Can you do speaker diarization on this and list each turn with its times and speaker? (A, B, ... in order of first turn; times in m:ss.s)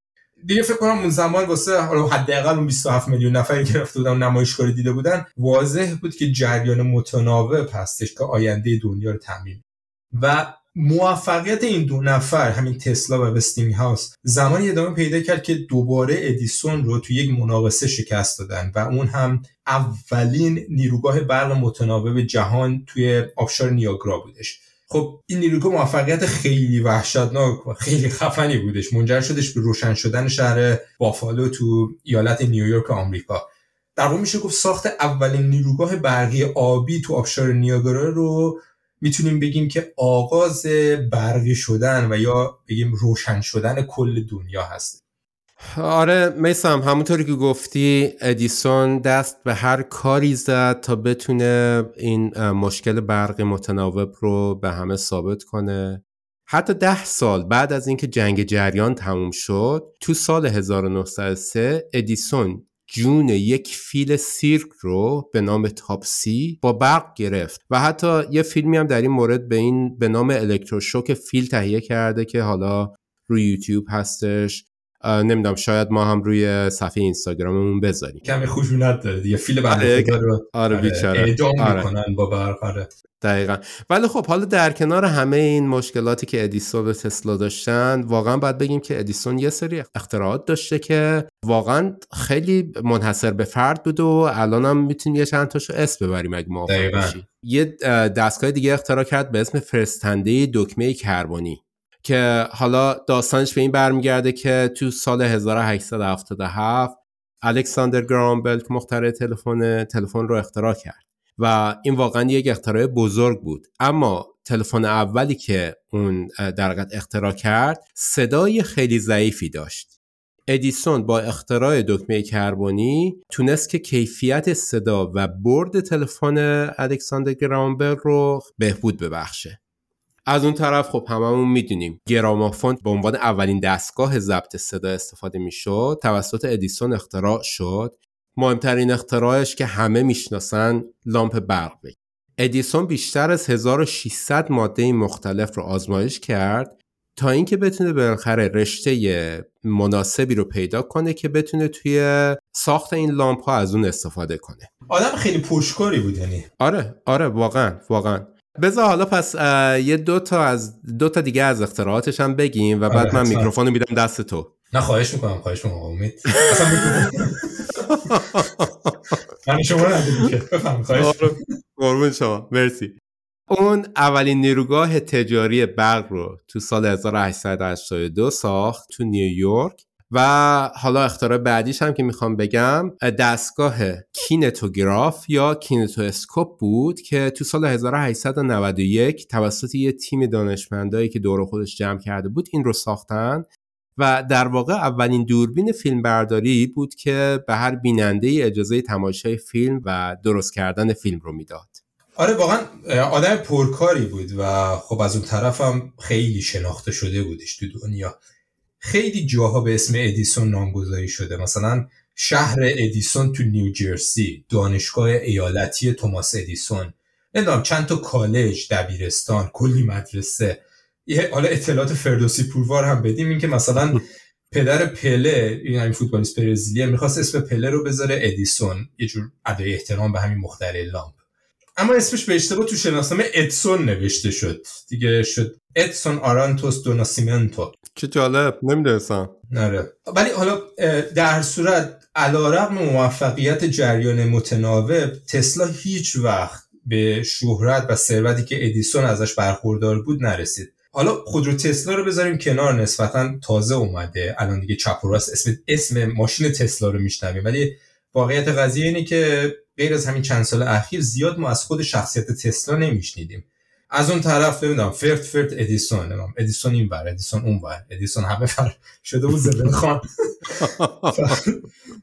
0:00.4-0:45.0 A
0:45.6-1:18.2 B
1:18.2-1:22.9 A
1:19.7-1:21.9 B
1:23.2-1:59.9 B
1:36.7-1:37.2 A
2:00.5-2:09.6 B
2:10.3-2:34.7 B
2:34.9-2:36.5 A
2:36.6-2:44.5 B
2:42.9-2:43.5 A
2:44.7-2:47.6 A
2:47.8-2:49.0 B
2:49.4-2:51.4 A
2:50.9-2:53.0 B
2:53.5-3:21.8 B
3:22.2-3:28.2 A
3:28.8-3:51.2 A
3:51.8-3:57.7 A
3:58.0-3:59.3 B
3:59.5-4:31.6 A
4:30.6-4:31.2 B